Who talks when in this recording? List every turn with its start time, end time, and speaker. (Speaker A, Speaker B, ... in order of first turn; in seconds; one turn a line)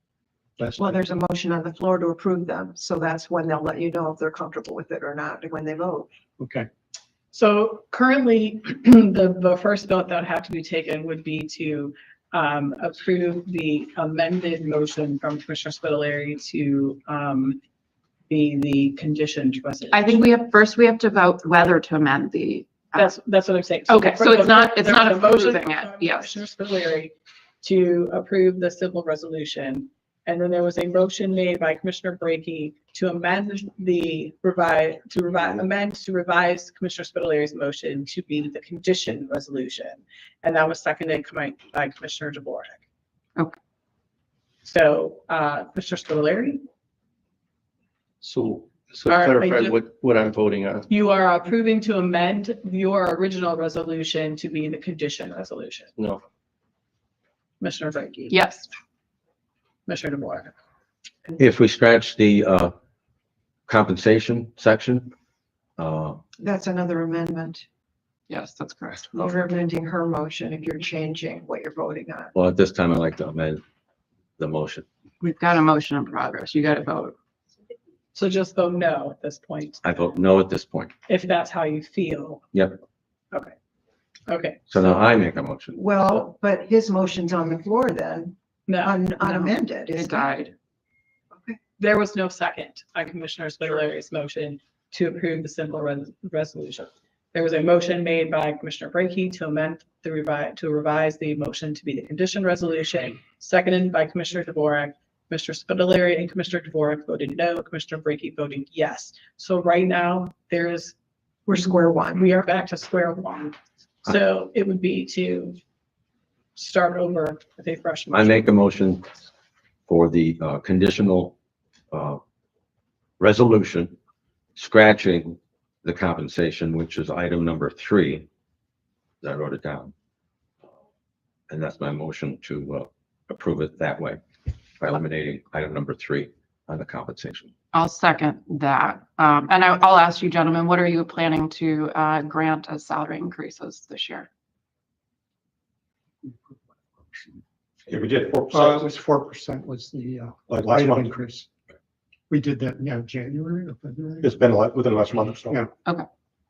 Speaker A: 0.6-1.0
Speaker B: 0.8-6.1
Speaker A: 6.4-6.7
Speaker C: 7.3-17.6
Speaker C: 18.3-20.3
Speaker D: 19.9-23.2
Speaker C: 23.0-42.8
Speaker D: 23.9-26.4
Speaker C: 44.6-46.6
Speaker E: 48.2-50.9
Speaker C: 49.1-49.8
Speaker C: 50.9-55.9
Speaker E: 56.0-56.2
Speaker C: 57.6-58.4
Speaker D: 58.3-58.7
Speaker C: 59.9-60.5
Speaker F: 61.4-62.7
Speaker F: 63.7-65.1
Speaker F: 65.8-66.2
Speaker B: 66.4-67.7
Speaker D: 68.3-69.1
Speaker B: 69.1-72.3
Speaker F: 72.3-73.6
Speaker F: 74.4-74.8
Speaker D: 75.2-77.2
Speaker C: 78.1-79.8
Speaker F: 79.8-80.9
Speaker C: 81.1-82.4
Speaker C: 84.3-84.7
Speaker F: 84.7-85.8
Speaker B: 85.7-90.3
Speaker C: 88.7-89.2
Speaker D: 89.2-90.5
Speaker C: 91.8-111.0
Speaker B: 111.5-112.2
Speaker C: 112.1-115.6
Speaker C: 116.5-118.5
Speaker F: 118.1-119.1
Speaker F: 119.9-121.3
Speaker F: 121.9-122.2
Speaker F: 123.2-124.0
Speaker F: 124.6-128.3
Speaker F: 129.2-129.9
Speaker F: 131.5-134.2
Speaker F: 134.8-137.5
Speaker D: 137.7-144.3
Speaker A: 146.2-147.3
Speaker G: 147.9-148.9
Speaker A: 148.5-151.5
Speaker G: 150.5-151.2
Speaker A: 152.3-154.3
Speaker G: 154.2-155.7